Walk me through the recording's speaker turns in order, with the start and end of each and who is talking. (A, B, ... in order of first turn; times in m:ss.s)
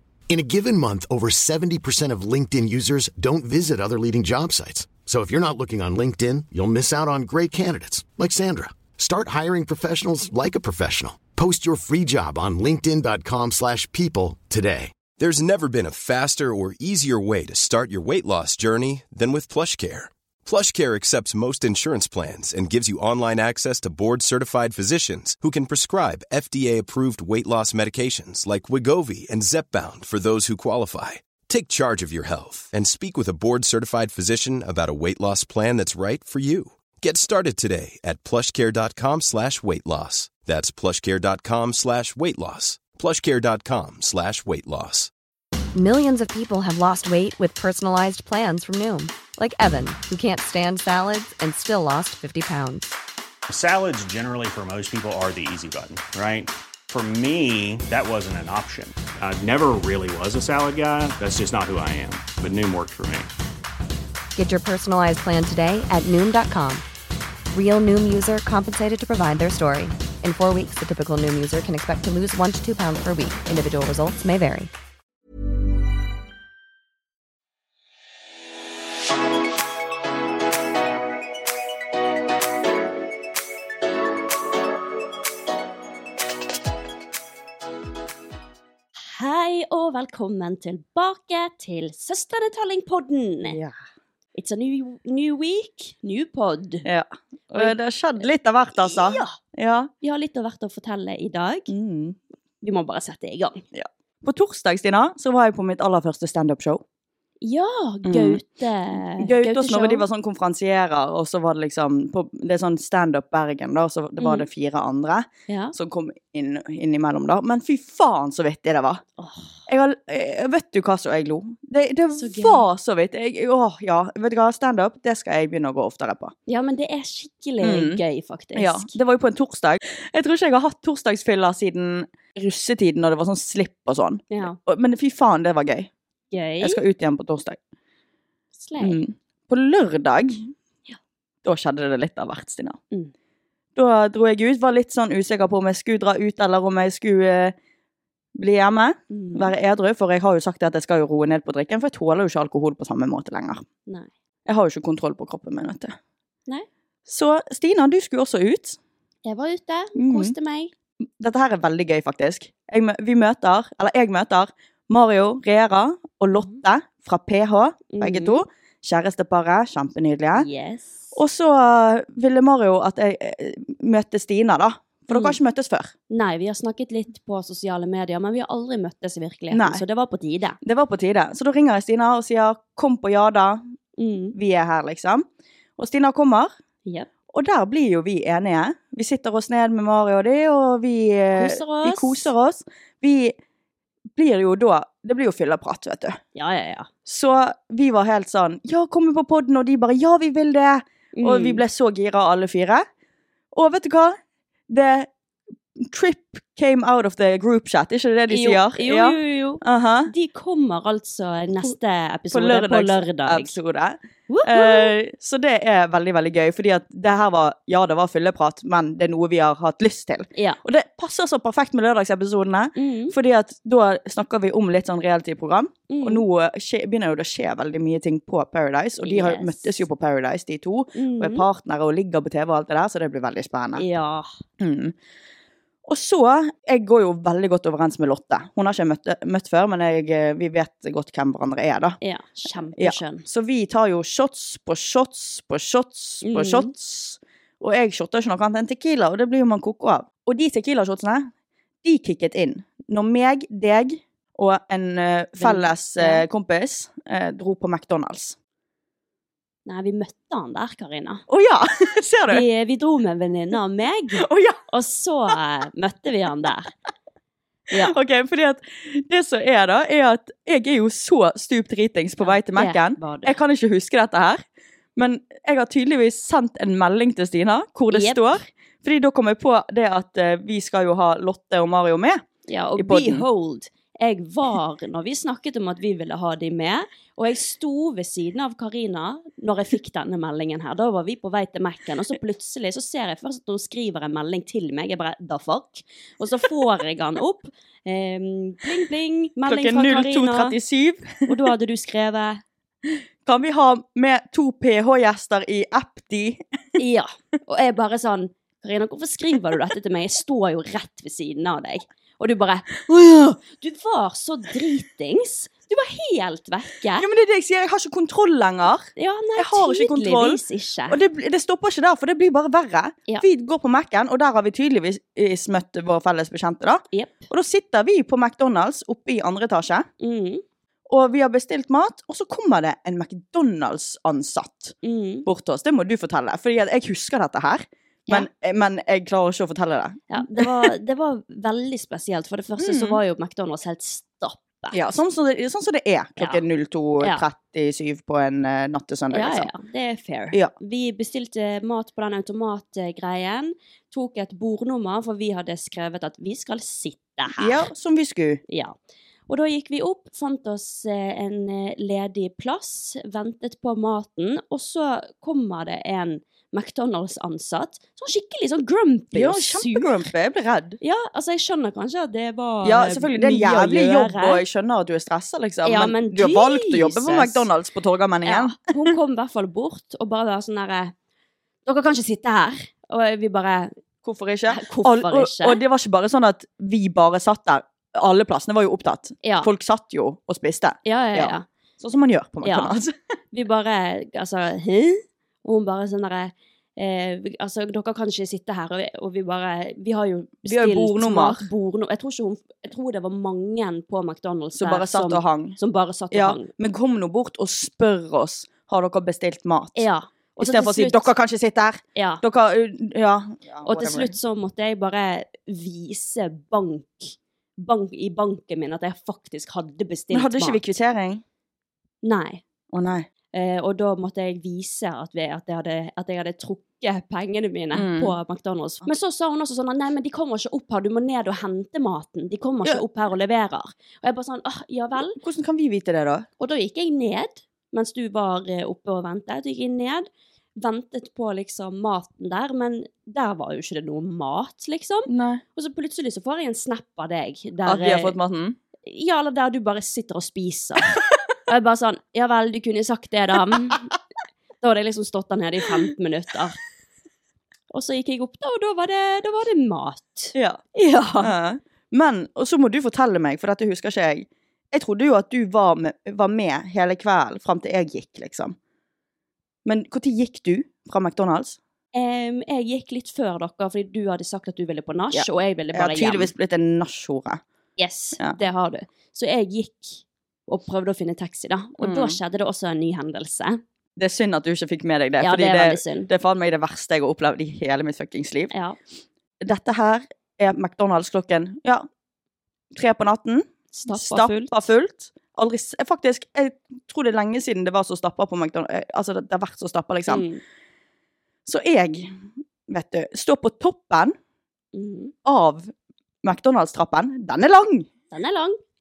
0:00.3-0:15.0 A
0:15.2-0:45.1 B
0:45.8-0:52.9 C
0:53.5-1:03.3 D
1:04.4-1:06.8 C
1:07.5-1:14.7 C
1:29.0-1:33.6 E
1:33.4-1:33.7 F
1:34.4-1:36.9 E
1:36.8-1:39.9 F
1:38.8-1:39.4 E
1:40.0-1:41.7 E
1:41.7-1:42.2 F
1:42.6-1:43.6 E
1:43.7-1:46.8 F
1:47.4-1:50.0 E
1:48.0-1:59.0 F
1:54.2-1:54.5 E
1:55.5-1:55.8 E
1:59.2-1:59.5 E
1:59.7-2:06.3 F
2:02.2-2:02.6 E
2:06.5-2:09.0 E
2:07.6-2:08.0 F
2:08.6-2:15.9 F
2:14.3-2:14.6 E
2:16.3-2:16.8 E
2:16.6-2:17.6 F
2:18.6-2:19.0 E
2:18.8-2:20.5 F
2:21.4-2:22.8 F
2:23.8-2:27.6 F
2:28.4-2:33.6 F
2:29.1-2:29.5 E
2:34.5-2:36.0 F
2:37.1-2:38.8 F
2:39.2-2:40.7 E
2:40.0-2:40.4 F
2:41.2-2:50.5 F
2:46.3-2:46.6 E
2:47.9-2:48.4 E
2:50.4-2:51.0 E
2:51.2-2:55.9 F
2:55.1-2:55.4 E
2:56.1-3:00.6 E
2:59.5-2:59.8 F
3:00.6-3:03.6 F
3:04.0-3:04.4 E
3:04.4-3:05.3 F
3:05.8-3:06.5 F
3:07.3-3:13.4 F
3:11.3-3:12.3 E
3:14.2-3:16.2 F
3:16.4-3:16.9 E
3:17.1-3:22.9 F
3:21.1-3:21.6 E
3:23.5-3:24.2 F
3:24.7-3:25.1 F
3:25.8-3:30.1 F
3:28.3-3:33.6 E
3:32.3-3:53.8 F
3:34.3-3:34.9 E
3:40.4-3:40.6 E
3:42.8-3:43.2 E
3:45.9-3:46.2 E
3:49.0-3:49.8 E
3:51.0-3:51.5 E
3:53.8-3:54.3 E
3:54.6-3:55.0 F
3:55.9-4:02.0 F
4:02.0-4:03.3 E
4:02.8-4:11.3 F
4:06.2-4:06.7 E
4:11.8-4:18.4 F
4:15.4-4:16.2 E
4:19.7-4:21.2 E
4:21.3-4:22.4 F
4:22.3-4:26.7 E
4:24.2-4:24.6 F
4:27.8-4:34.4 F
4:32.2-4:33.4 E
4:35.0-4:42.2 F
4:37.9-4:38.4 E
4:42.5-5:00.6 E
4:42.8-4:43.2 F
4:59.4-5:01.3 F
5:01.3-5:02.4 E
5:03.2-5:06.4 F
5:06.8-5:17.1 E
5:17.0-5:29.9 F
5:19.0-5:21.0 E
5:26.9-5:27.3 E
5:30.0-5:30.4 E
5:30.9-5:40.7 F
5:34.8-5:35.3 E
5:40.1-5:44.8 E
5:42.6-5:43.0 F
5:44.7-5:49.5 F
5:46.2-5:46.4 E
5:49.1-5:57.6 E
5:57.4-5:58.4 F
5:58.5-5:58.7 E
5:59.3-6:09.9 E
6:09.1-6:10.8 F
6:10.8-6:14.4 E
6:12.6-6:18.9 F
6:15.6-6:17.5 E
6:18.2-6:20.9 E
6:21.7-6:23.8 E
6:24.0-6:33.0 F
6:24.5-6:25.6 E
6:29.2-6:29.5 E
6:30.9-6:31.5 E
6:32.4-6:32.8 E
6:33.3-6:46.5 E
6:40.4-6:41.5 F
6:44.5-6:45.6 F
6:46.1-6:54.2 F
6:49.8-6:51.1 E
6:52.0-6:52.2 E
6:53.6-7:00.6 E
7:00.1-7:01.2 F
7:02.0-7:02.4 E
7:02.7-7:03.1 F
7:03.3-7:15.2 E
7:07.7-7:08.2 F
7:15.1-7:16.3 F
7:16.4-7:28.2 E
7:25.1-7:25.4 F
7:27.6-7:28.6 F
7:28.9-7:33.9 E
7:34.6-7:36.6 E
7:37.7-7:41.3 E
7:40.3-7:40.6 F
7:41.2-7:48.6 F
7:49.6-7:51.6 F
7:51.9-7:56.3 E
7:55.1-7:57.4 F
7:57.8-8:03.6 E
8:01.8-8:02.2 F
8:04.0-8:08.5 F
8:05.2-8:06.1 E
8:08.5-8:08.8 E
8:09.4-8:11.9 F
8:12.7-8:20.3 F
8:13.7-8:14.5 E
8:20.1-8:20.4 E
8:21.5-8:24.2 F
8:24.7-8:25.1 E
8:25.2-8:25.7 F
8:26.2-8:27.9 F
8:28.1-8:28.6 E